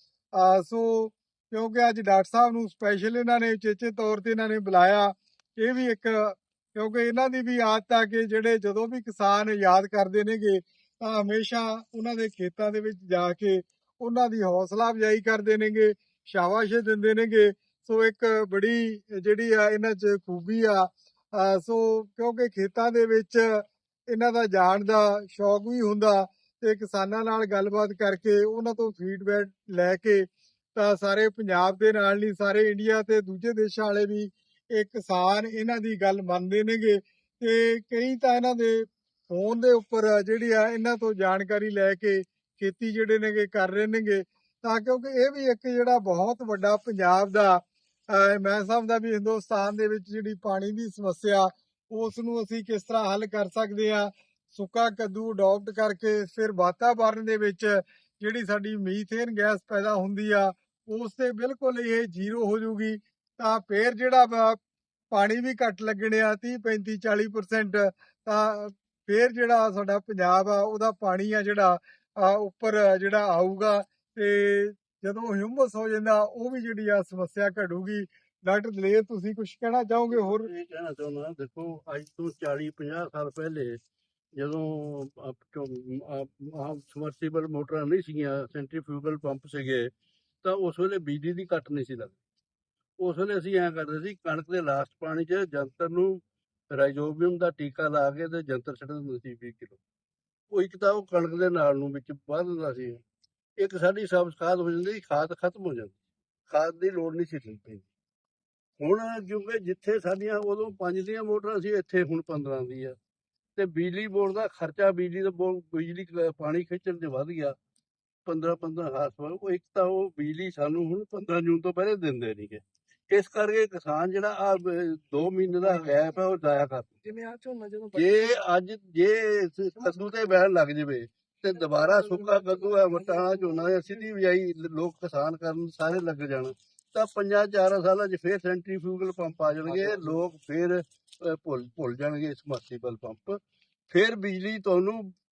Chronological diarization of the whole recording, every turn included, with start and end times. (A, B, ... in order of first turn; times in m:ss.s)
0:00.4-0:47.6 A
0:48.1-1:04.6 A
1:05.1-1:20.5 A
1:20.1-1:23.8 B
1:24.4-1:29.9 B
1:30.4-1:32.2 B
1:33.0-1:36.2 B
1:36.7-1:39.8 B
1:40.5-1:43.0 B
1:43.6-1:46.0 B
1:46.5-1:47.8 B
1:48.8-1:53.0 B
1:53.6-1:57.5 B
1:58.3-2:06.9 B
2:05.5-2:06.1 C
2:07.0-2:08.4 C
2:08.0-2:23.4 B
2:11.6-2:13.8 C
2:23.9-2:25.1 B